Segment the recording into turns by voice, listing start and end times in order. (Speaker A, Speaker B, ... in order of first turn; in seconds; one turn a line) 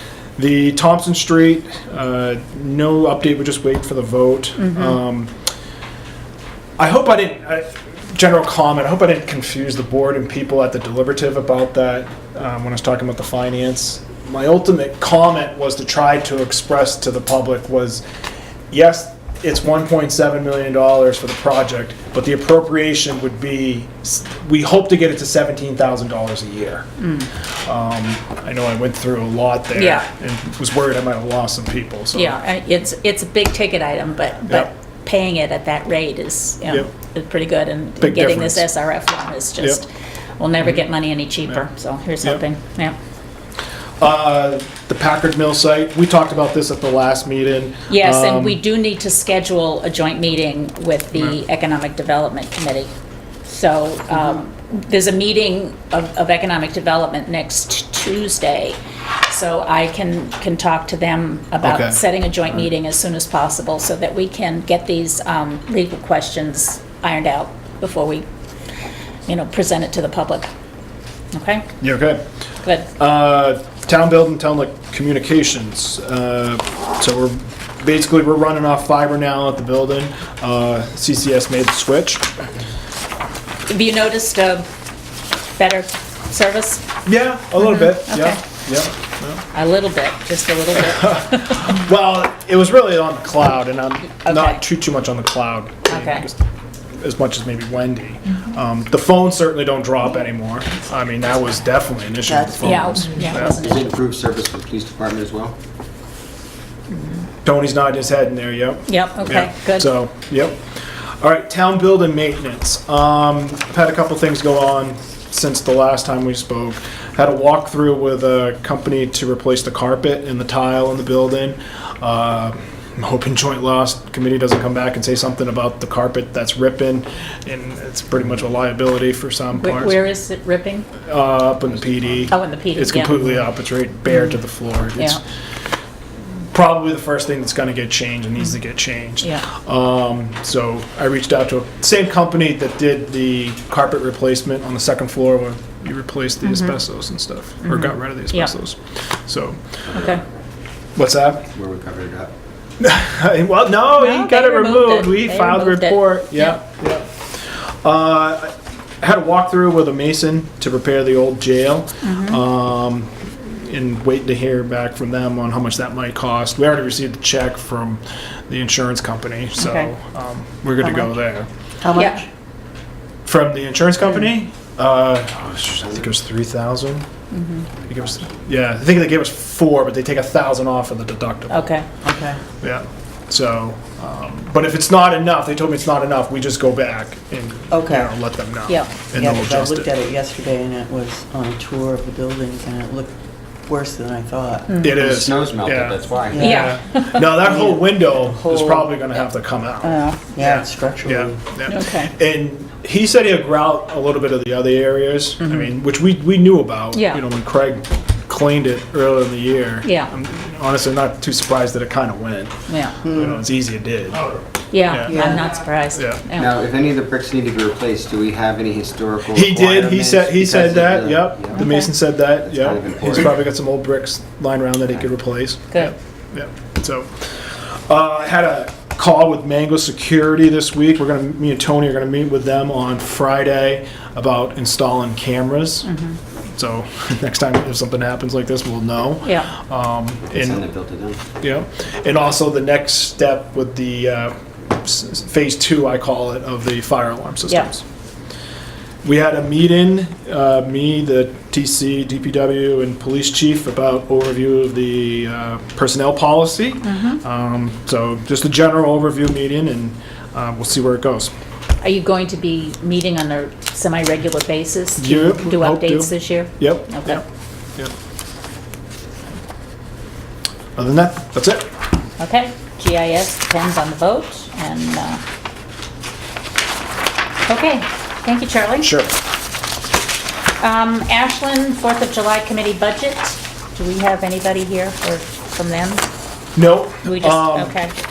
Speaker A: 0.4-5.3
Speaker B: 4.6-5.0
Speaker A: 6.8-18.0
Speaker A: 18.7-26.9
Speaker B: 27.0-27.3
Speaker A: 27.6-32.4
Speaker B: 29.7-30.1
Speaker B: 32.1-39.9
Speaker A: 38.0-38.6
Speaker B: 40.4-43.0
Speaker A: 44.0-48.6
Speaker B: 47.9-52.9
Speaker B: 53.5-68.2
Speaker A: 61.6-62.0
Speaker B: 69.3-70.5
Speaker B: 71.3-71.7
Speaker A: 71.8-72.2
Speaker B: 72.6-72.9
Speaker A: 73.0-82.3
Speaker B: 83.7-84.7
Speaker B: 85.5-86.8
Speaker A: 87.0-89.4
Speaker B: 87.6-88.4
Speaker B: 89.5-91.7
Speaker A: 90.8-96.4
Speaker B: 94.2-94.6
Speaker B: 95.9-96.2
Speaker A: 97.0-103.6
Speaker C: 102.2-103.0
Speaker B: 102.6-103.9
Speaker D: 103.6-105.5
Speaker A: 107.4-110.6
Speaker B: 108.9-109.9
Speaker A: 111.2-130.0
Speaker B: 129.6-130.9
Speaker A: 131.0-135.2
Speaker B: 132.3-133.2
Speaker A: 136.5-149.8
Speaker B: 146.4-146.7
Speaker B: 147.6-148.5
Speaker B: 149.9-150.2
Speaker A: 150.9-151.5
Speaker D: 151.5-152.3
Speaker A: 152.8-171.5
Speaker B: 153.9-156.6
Speaker B: 162.0-162.4
Speaker B: 169.6-169.9
Speaker B: 170.8-171.1
Speaker C: 171.8-172.3
Speaker B: 171.9-172.2
Speaker A: 173.2-177.1
Speaker B: 177.3-177.7
Speaker D: 177.8-178.3
Speaker A: 177.9-181.8
Speaker B: 181.5-181.8
Speaker C: 182.0-182.4
Speaker A: 182.6-189.9
Speaker C: 187.7-188.1
Speaker B: 188.7-189.0
Speaker C: 189.1-193.1
Speaker C: 193.7-194.7
Speaker B: 194.7-195.0
Speaker A: 194.8-214.2
Speaker D: 194.8-196.6
Speaker C: 196.3-198.9
Speaker B: 196.3-197.4
Speaker B: 199.8-200.2
Speaker C: 200.3-201.4
Speaker B: 201.7-202.1
Speaker B: 205.4-205.7
Speaker B: 206.9-207.2
Speaker B: 209.8-210.1
Speaker B: 212.7-213.0
Speaker B: 214.7-216.5
Speaker A: 214.8-215.4
Speaker C: 215.1-215.5
Speaker A: 215.9-216.2
Speaker D: 216.4-221.7
Speaker A: 219.3-235.9
Speaker B: 221.5-221.8
Speaker D: 222.4-223.4
Speaker B: 235.8-236.2
Speaker A: 236.6-240.6
Speaker B: 239.2-239.5
Speaker D: 240.3-241.2
Speaker A: 241.4-247.8
Speaker A: 249.0-261.3
Speaker B: 256.8-257.2
Speaker B: 261.8-267.2
Speaker A: 265.0-267.2
Speaker A: 270.8-271.7
Speaker B: 272.2-275.2
Speaker B: 277.5-278.9
Speaker A: 278.8-279.1
Speaker B: 280.6-286.0
Speaker A: 286.6-287.8
Speaker B: 287.0-287.9